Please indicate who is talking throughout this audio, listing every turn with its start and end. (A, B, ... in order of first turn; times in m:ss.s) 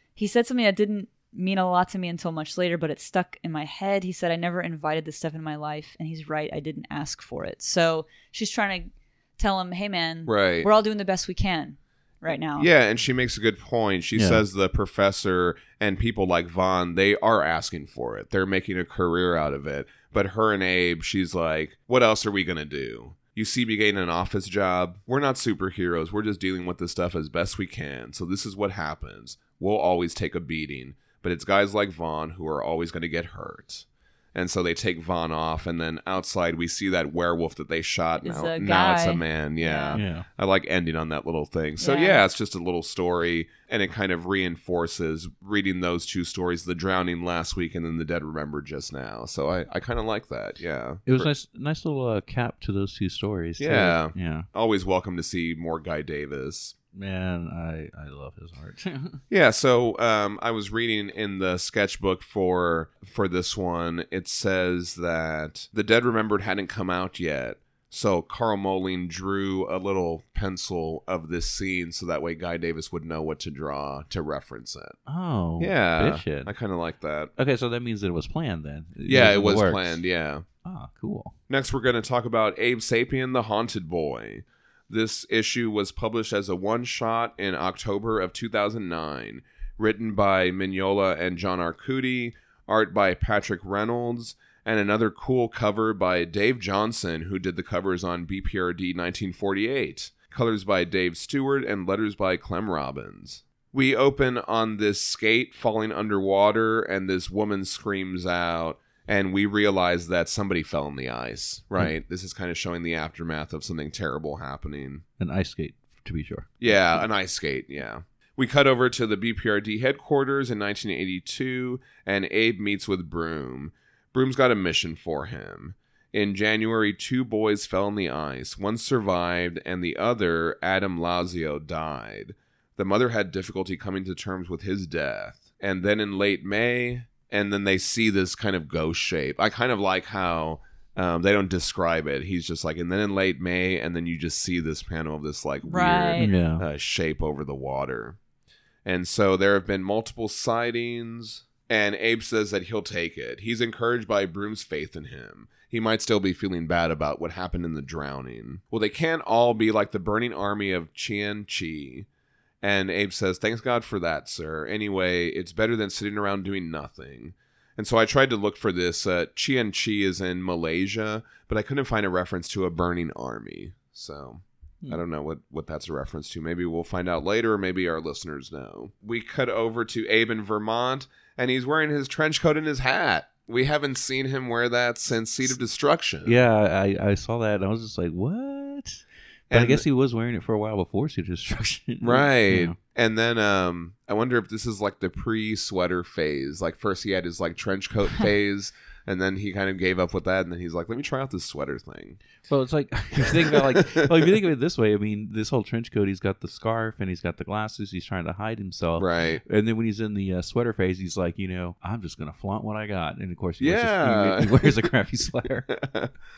0:00.2-0:12.7 A
0:10.3-0:10.7 B
0:12.6-0:51.3 B
0:14.1-0:14.4 C
0:38.2-0:40.0 A
0:39.9-0:40.2 C
0:41.8-0:42.2 A
0:51.0-0:54.4 C
0:53.6-0:56.7 B
0:56.9-0:59.2 C
0:59.3-1:15.0 B
1:15.0-1:16.5 C
1:15.6-1:17.3 B
1:17.4-1:20.0 C
1:19.0-1:20.4 B
1:20.6-1:21.3 C
1:21.5-1:55.0 B
1:55.2-1:57.0 C
1:56.6-2:28.2 B
2:25.6-2:26.3 A
2:26.2-2:26.6 C
2:28.8-2:42.1 B
2:42.6-3:06.4 B
3:06.2-3:12.8 C
3:09.5-3:09.8 B
3:12.0-3:22.2 B
3:22.5-3:35.7 C
3:23.2-3:24.3 B
3:29.0-3:29.4 B
3:33.6-3:34.8 B
3:35.7-3:36.1 B